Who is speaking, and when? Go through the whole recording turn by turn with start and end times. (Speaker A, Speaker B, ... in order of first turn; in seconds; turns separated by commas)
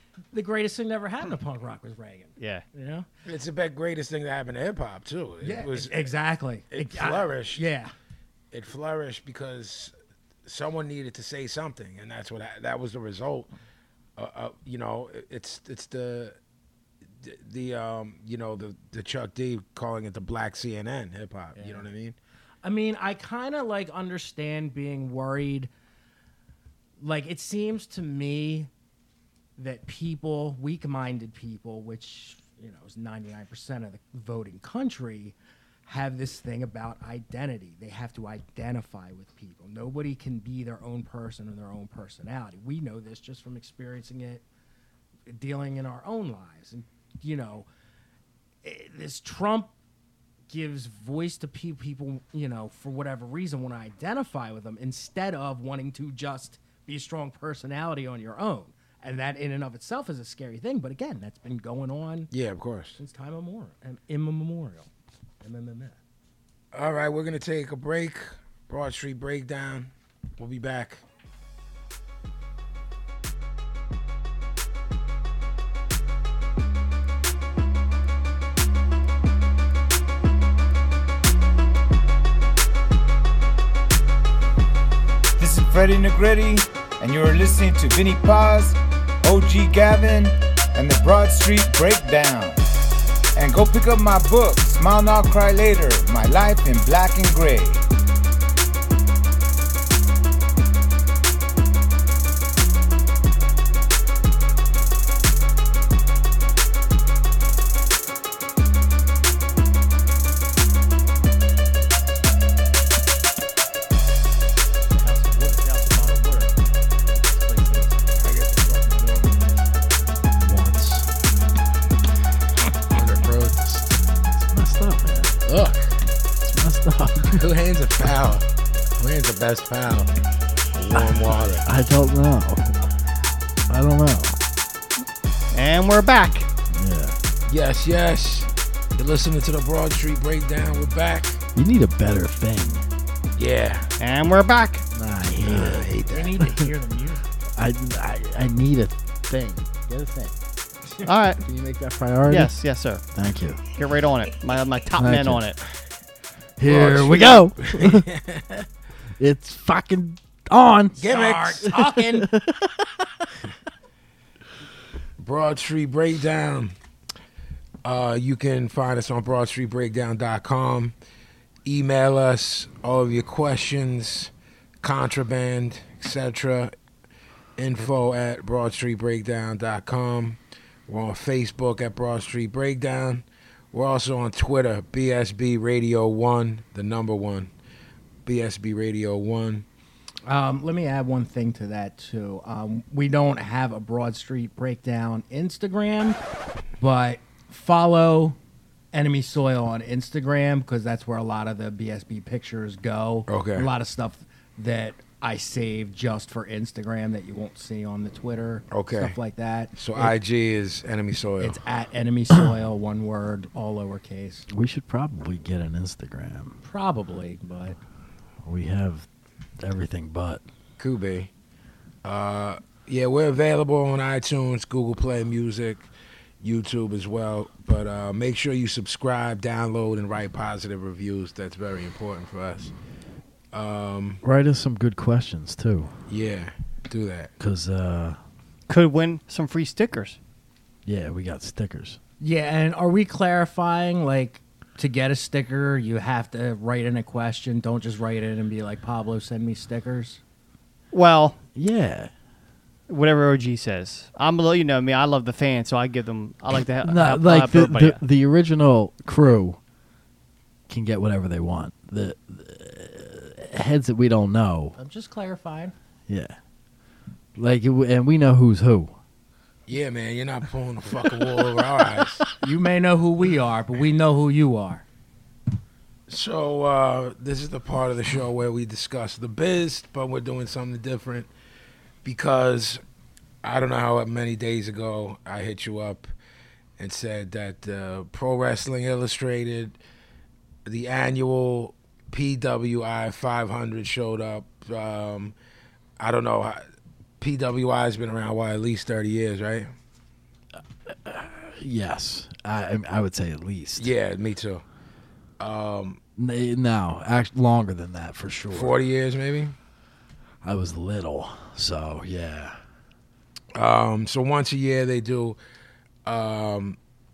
Speaker A: 0.3-3.0, Speaker B: 2.4-2.6, Speaker C: 3.2-6.1, Speaker A: 5.4-7.9, Speaker C: 6.7-7.6, Speaker C: 8.5-9.9, Speaker C: 10.4-13.5, Speaker C: 14.2-16.4, Speaker C: 17.2-22.2, Speaker A: 21.6-21.8, Speaker A: 22.6-25.7, Speaker A: 27.0-28.7, Speaker A: 29.6-44.4, Speaker A: 45.3-47.7, Speaker A: 48.6-49.7, Speaker A: 50.5-62.3, Speaker C: 62.3-63.0, Speaker A: 63.0-64.9, Speaker A: 65.4-66.0, Speaker C: 66.7-71.0, Speaker D: 85.4-92.6, Speaker D: 93.4-97.8, Speaker A: 114.9-116.5, Speaker A: 117.2-118.1, Speaker C: 118.2-119.4, Speaker E: 120.4-121.1, Speaker C: 122.9-123.7, Speaker E: 123.6-125.4, Speaker C: 125.5-126.0, Speaker E: 126.4-127.5, Speaker C: 127.3-128.5, Speaker C: 129.0-130.1, Speaker C: 130.7-131.7, Speaker E: 130.9-132.8, Speaker E: 133.7-134.4, Speaker B: 135.5-136.5, Speaker E: 136.7-137.2, Speaker C: 137.5-141.4, Speaker E: 141.6-142.8, Speaker C: 143.4-143.9, Speaker B: 144.0-144.9, Speaker E: 144.9-146.7, Speaker C: 145.4-146.4, Speaker A: 146.1-147.2, Speaker E: 147.6-150.4, Speaker B: 151.1-151.4, Speaker E: 151.4-152.5, Speaker B: 152.3-153.0, Speaker E: 153.1-153.6, Speaker B: 153.8-155.6, Speaker E: 155.0-155.4, Speaker E: 156.6-158.1, Speaker C: 156.6-158.7, Speaker E: 159.2-161.1, Speaker C: 161.0-161.7, Speaker A: 161.1-162.3, Speaker E: 161.6-163.3, Speaker C: 165.2-166.7, Speaker C: 167.8-170.9, Speaker C: 171.6-176.7, Speaker C: 177.6-187.5, Speaker C: 188.3-189.7, Speaker A: 190.3-196.2, Speaker A: 196.8-198.4, Speaker A: 198.9-210.1, Speaker C: 203.3-203.7, Speaker C: 208.7-209.2, Speaker C: 209.8-211.6, Speaker A: 211.4-214.5, Speaker E: 214.5-216.6, Speaker A: 216.6-217.8, Speaker E: 218.4-219.1, Speaker E: 219.6-220.4, Speaker C: 220.8-221.3, Speaker C: 222.0-225.9, Speaker C: 226.4-232.7, Speaker C: 233.5-234.2, Speaker E: 234.2-235.9, Speaker C: 236.1-237.3, Speaker E: 237.4-238.2, Speaker B: 238.7-240.2, Speaker E: 240.9-242.0, Speaker A: 242.2-250.2, Speaker B: 250.9-251.4, Speaker E: 251.6-252.1, Speaker B: 252.9-258.0, Speaker E: 256.8-259.6, Speaker E: 260.7-264.8, Speaker A: 264.8-265.7, Speaker E: 266.1-266.4, Speaker E: 267.4-269.0, Speaker C: 269.7-272.2, Speaker A: 272.4-274.8, Speaker C: 276.1-281.3, Speaker C: 282.0-282.8, Speaker C: 283.4-286.1, Speaker C: 286.8-289.8, Speaker C: 290.7-295.4, Speaker C: 296.0-296.6, Speaker C: 297.2-299.7, Speaker E: 300.9-303.9, Speaker C: 303.8-304.6, Speaker C: 305.4-306.0, Speaker E: 306.2-308.8, Speaker C: 308.5-309.6, Speaker E: 310.4-312.6, Speaker C: 313.6-315.4, Speaker C: 316.1-316.8